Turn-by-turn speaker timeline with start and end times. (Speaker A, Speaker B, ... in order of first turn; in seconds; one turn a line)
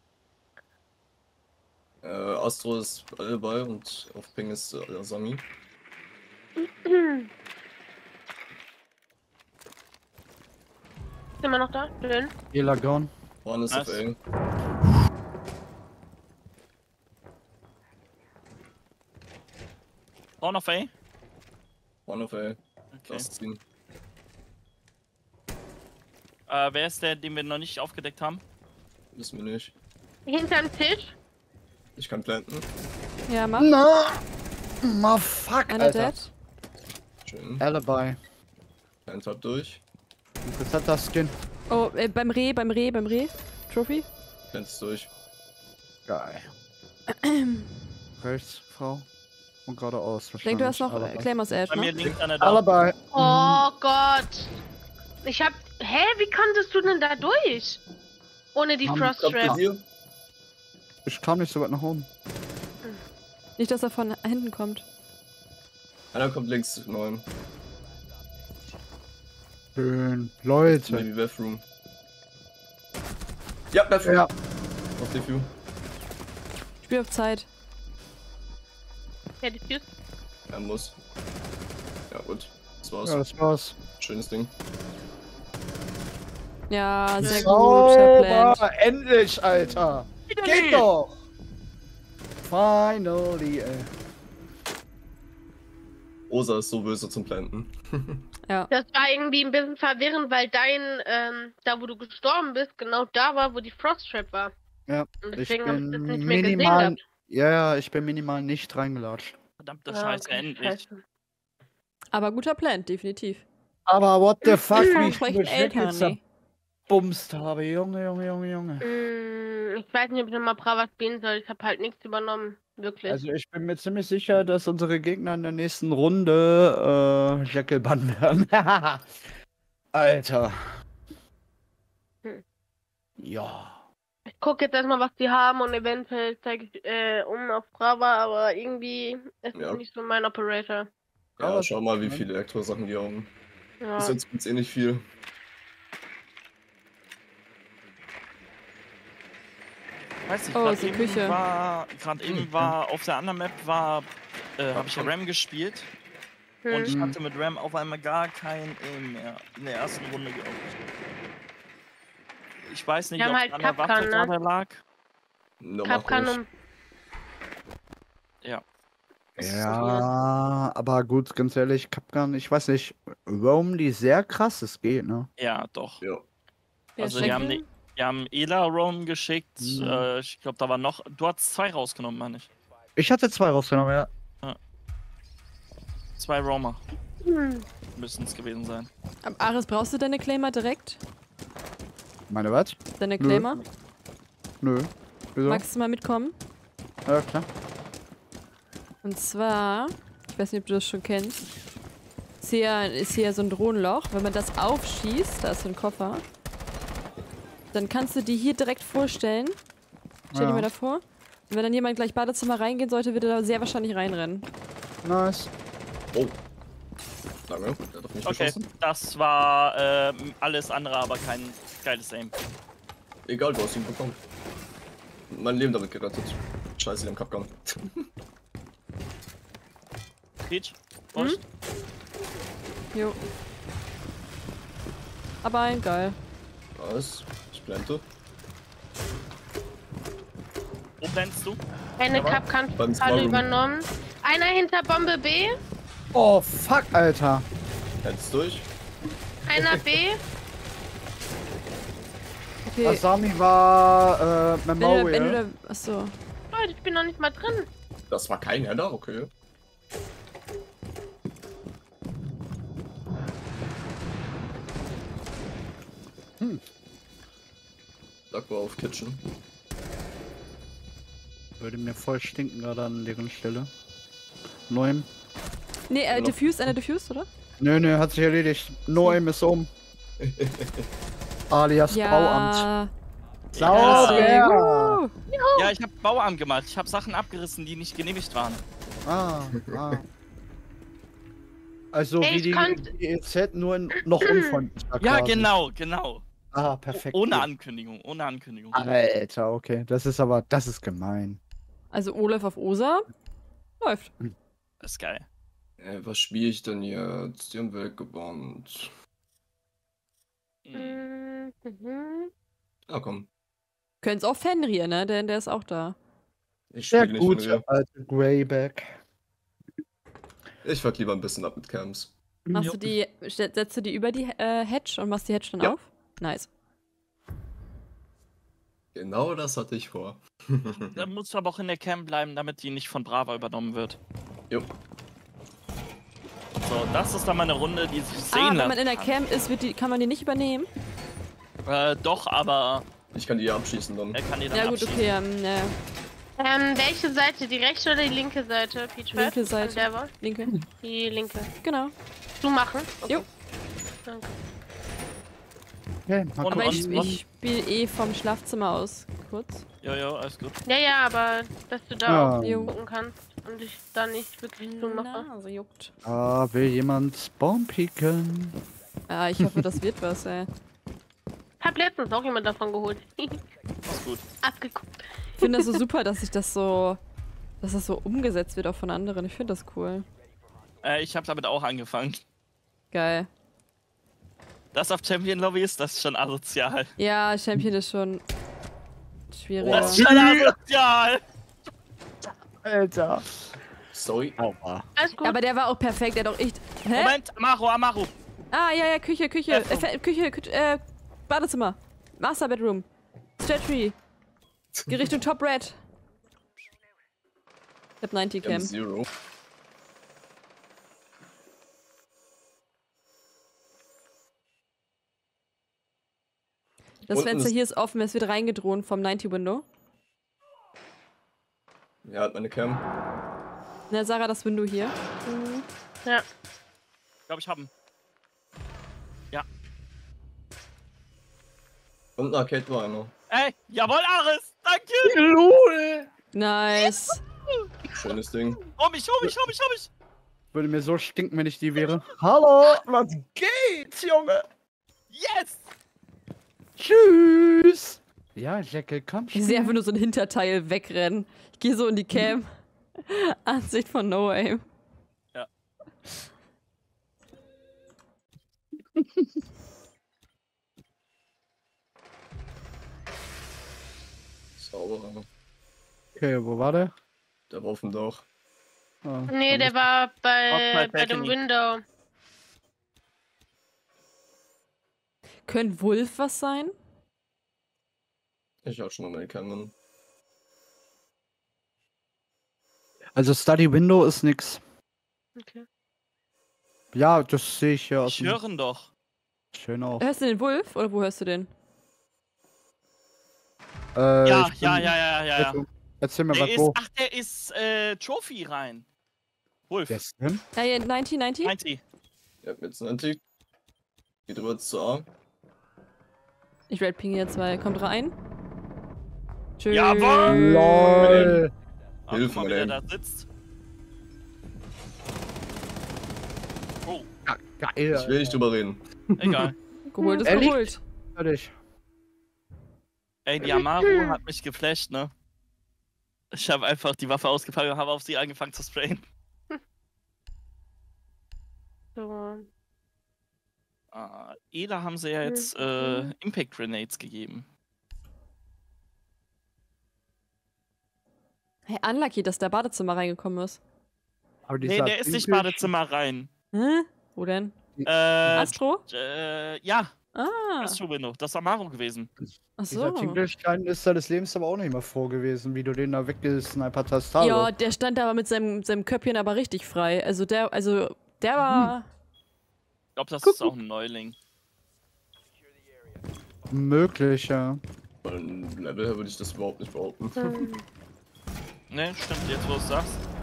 Speaker A: 2.0-5.5
Speaker B: 6.6-7.3
Speaker B: 11.4-12.3
Speaker C: 12.5-13.1
Speaker A: 13.4-14.2
Speaker D: 13.7-14.0
Speaker D: 20.4-20.9
Speaker A: 22.1-23.6
Speaker D: 22.9-23.3
Speaker D: 26.5-28.4
Speaker A: 29.1-29.7
Speaker B: 30.3-31.1
Speaker A: 32.0-32.7
Speaker E: 33.3-33.7
Speaker C: 33.6-34.2
Speaker C: 34.8-36.1
Speaker E: 35.7-36.3
Speaker A: 37.3-37.6
Speaker C: 37.6-38.2
Speaker A: 39.1-39.8
Speaker C: 40.5-41.4
Speaker E: 41.7-44.1
Speaker A: 44.5-45.1
Speaker C: 46.1-46.5
Speaker E: 47.1-47.7
Speaker C: 48.2-49.1
Speaker C: 49.7-51.3
Speaker E: 50.4-51.9
Speaker D: 51.7-52.6
Speaker C: 52.4-53.6
Speaker B: 53.1-54.6
Speaker B: 55.2-57.8
Speaker B: 58.5-59.6
Speaker C: 58.9-59.6
Speaker A: 59.2-59.8
Speaker C: 61.1-62.1
Speaker E: 63.6-64.8
Speaker A: 66.1-67.3
Speaker C: 69.8-71.1
Speaker A: 70.7-71.6
Speaker A: 73.7-74.3
Speaker C: 74.0-74.3
Speaker A: 75.0-75.5
Speaker E: 76.8-77.5
Speaker B: 79.4-79.9
Speaker A: 80.5-81.0
Speaker A: 82.1-83.2
Speaker C: 83.0-83.8
Speaker A: 84.0-84.5
Speaker E: 86.7-88.6
Speaker C: 87.2-91.1
Speaker B: 87.2-87.5
Speaker B: 89.5-89.8
Speaker D: 90.3-90.8
Speaker C: 92.4-93.9
Speaker A: 96.3-98.2
Speaker B: 98.7-104.5
Speaker C: 104.9-109.3
Speaker B: 105.2-107.0
Speaker D: 109.6-110.8
Speaker B: 109.9-111.0
Speaker E: 112.1-113.5
Speaker C: 113.9-116.2
Speaker B: 114.5-115.1
Speaker E: 115.0-116.2
Speaker C: 116.9-118.8
Speaker B: 118.8-123.2
Speaker C: 123.1-129.1
Speaker C: 129.9-130.6
Speaker C: 133.2-133.8
Speaker B: 134.4-140.9
Speaker A: 139.5-139.8
Speaker A: 141.4-143.3
Speaker C: 141.4-142.3
Speaker B: 143.8-144.2
Speaker A: 144.0-145.1
Speaker D: 150.3-155.9
Speaker E: 150.5-151.4
Speaker A: 152.3-152.7
Speaker A: 154.7-155.1
Speaker B: 156.7-156.9
Speaker D: 156.7-160.6
Speaker C: 156.9-157.2
Speaker D: 162.7-164.8
Speaker B: 163.2-164.3
Speaker A: 165.6-166.4
Speaker B: 165.8-166.5
Speaker C: 169.4-175.3
Speaker B: 169.4-170.1
Speaker D: 175.4-176.0
Speaker B: 177.0-177.6
Speaker D: 177.0-182.5
Speaker C: 179.6-180.1
Speaker C: 183.0-184.1
Speaker D: 186.2-186.8
Speaker B: 187.2-187.7
Speaker D: 187.9-188.9
Speaker E: 189.2-191.0
Speaker C: 192.3-193.5
Speaker E: 193.0-193.6
Speaker C: 194.6-195.6
Speaker E: 195.5-196.3
Speaker C: 197.1-197.4
Speaker E: 199.0-201.4
Speaker E: 202.4-206.2
Speaker E: 207.7-209.6
Speaker C: 210.3-210.7
Speaker E: 210.3-214.5
Speaker C: 215.0-215.5
Speaker A: 217.5-218.7
Speaker D: 218.2-222.3
Speaker A: 223.3-224.2
Speaker A: 225.3-228.1
Speaker D: 230.5-231.4
Speaker E: 231.2-231.4
Speaker E: 232.9-233.2
Speaker E: 235.4-236.2
Speaker A: 236.8-238.1
Speaker D: 241.0-242.4
Speaker B: 242.0-245.5
Speaker A: 242.8-243.5
Speaker C: 246.1-247.4
Speaker A: 248.0-248.7
Speaker B: 249.5-250.2
Speaker A: 249.5-249.9
Speaker E: 252.7-253.0
Speaker C: 252.8-255.4
Speaker E: 254.8-256.1
Speaker B: 256.5-257.7
Speaker A: 258.1-259.3
Speaker A: 268.3-269.2
Speaker C: 271.6-273.7
Speaker C: 274.7-275.1
Speaker E: 275.9-277.3
Speaker A: 276.1-276.5
Speaker C: 277.6-279.7
Speaker A: 280.2-280.9
Speaker C: 281.5-282.7
Speaker E: 281.9-282.9
Speaker D: 283.5-284.5
Speaker C: 283.6-285.0
Speaker E: 283.7-285.1
Speaker B: 285.3-285.7
Speaker D: 285.6-288.6
Speaker C: 289.1-290.0
Speaker C: 291.9-295.5
Speaker B: 292.2-292.9
Speaker B: 294.2-294.6
Speaker D: 295.0-296.2
Speaker C: 296.5-297.5
Speaker D: 296.9-298.8
Speaker C: 298.7-301.4
Speaker E: 301.9-303.1
Speaker E: 303.8-304.1
Speaker D: 304.8-305.3
Speaker A: 305.8-308.9
Speaker D: 310.6-311.1
Speaker B: 310.7-312.3
Speaker A: 312.9-313.3
Speaker E: 314.0-316.0
Speaker A: 316.7-317.6
Speaker C: 316.9-318.9
Speaker A: 320.6-322.1
Speaker C: 322.5-322.9
Speaker E: 322.5-326.5
Speaker A: 328.9-330.9
Speaker D: 330.8-334.0
Speaker D: 336.6-339.2
Speaker E: 338.3-340.7
Speaker D: 341.7-342.9
Speaker A: 343.1-344.2
Speaker D: 344.1-345.1
Speaker E: 344.5-345.8
Speaker B: 346.4-351.5
Speaker E: 349.1-350.6
Speaker E: 351.6-351.9
Speaker B: 352.4-353.3
Speaker B: 354.1-354.3
Speaker C: 356.1-357.2
Speaker D: 356.4-357.2
Speaker E: 356.5-359.6
Speaker D: 359.8-360.6
Speaker B: 360.7-365.3
Speaker C: 362.1-362.7
Speaker E: 362.4-362.7
Speaker E: 364.6-365.9
Speaker C: 366.0-368.6
Speaker E: 369.1-370.5
Speaker B: 371.6-373.4
Speaker D: 373.9-374.2
Speaker B: 374.4-375.8
Speaker E: 375.4-377.0
Speaker E: 377.6-380.1
Speaker D: 380.8-382.2
Speaker E: 382.9-383.3
Speaker D: 384.7-386.9
Speaker E: 387.0-388.2
Speaker E: 389.3-390.0
Speaker A: 389.6-390.1
Speaker D: 389.7-391.2
Speaker C: 389.8-390.4
Speaker C: 392.6-393.3
Speaker A: 393.9-394.4
Speaker C: 394.4-394.9
Speaker B: 395.0-395.4
Speaker E: 395.2-397.2
Speaker D: 396.9-398.1
Speaker E: 398.5-402.9
Speaker D: 399.5-399.9
Speaker E: 403.4-404.0
Speaker E: 404.9-405.8
Speaker E: 408.0-408.7
Speaker A: 408.4-409.1
Speaker E: 417.1-419.6
Speaker A: 417.1-417.6
Speaker A: 422.1-422.9
Speaker E: 423.9-425.0
Speaker B: 425.3-426.2
Speaker D: 427.3-427.7
Speaker A: 432.2-433.1
Speaker D: 433.3-435.1
Speaker C: 435.1-436.1
Speaker E: 436.3-437.2
Speaker A: 437.9-438.6
Speaker D: 438.8-439.9
Speaker C: 440.5-444.4
Speaker D: 445.1-445.6
Speaker C: 446.8-449.7
Speaker E: 449.4-454.6
Speaker C: 459.0-459.3
Speaker A: 464.6-465.3
Speaker C: 466.2-466.9
Speaker A: 467.5-468.3
Speaker C: 469.0-469.8
Speaker B: 469.3-471.8
Speaker D: 470.5-471.4
Speaker E: 475.5-476.7
Speaker A: 478.6-479.7
Speaker C: 483.2-484.6
Speaker B: 485.4-485.6
Speaker C: 486.9-488.4
Speaker D: 488.0-488.9
Speaker C: 489.5-490.1
Speaker E: 490.0-491.5
Speaker C: 494.0-496.8
Speaker D: 494.2-495.6
Speaker D: 496.3-498.9
Speaker D: 499.7-500.0
Speaker C: 499.9-500.4
Speaker E: 500.6-501.6
Speaker D: 501.4-501.8
Speaker A: 502.4-503.2
Speaker A: 504.3-505.1
Speaker E: 506.7-508.1
Speaker E: 509.6-511.4
Speaker D: 509.7-510.5
Speaker C: 510.3-511.5
Speaker A: 511.0-511.4
Speaker D: 512.1-513.3
Speaker A: 512.1-512.8
Speaker C: 517.3-518.4
Speaker A: 517.9-519.5
Speaker D: 519.2-519.6
Speaker E: 519.9-520.8
Speaker B: 520.0-520.5
Speaker C: 520.2-521.5
Speaker D: 523.3-525.1
Speaker B: 523.4-524.2
Speaker D: 526.3-529.1
Speaker B: 532.0-532.5
Speaker D: 533.9-537.5
Speaker B: 535.2-536.1
Speaker E: 541.7-543.6
Speaker C: 544.5-545.7
Speaker D: 544.6-546.3
Speaker E: 546.5-547.6
Speaker C: 547.8-548.6
Speaker D: 547.9-549.9
Speaker E: 548.4-548.9
Speaker E: 550.1-550.8
Speaker D: 550.6-552.1
Speaker E: 552.6-553.2
Speaker C: 552.7-557.5
Speaker E: 557.2-561.9
Speaker C: 561.4-561.7
Speaker D: 563.0-564.2
Speaker E: 563.2-563.5
Speaker C: 566.5-567.6
Speaker A: 568.0-570.4
Speaker B: 570.2-570.6
Speaker D: 571.7-573.0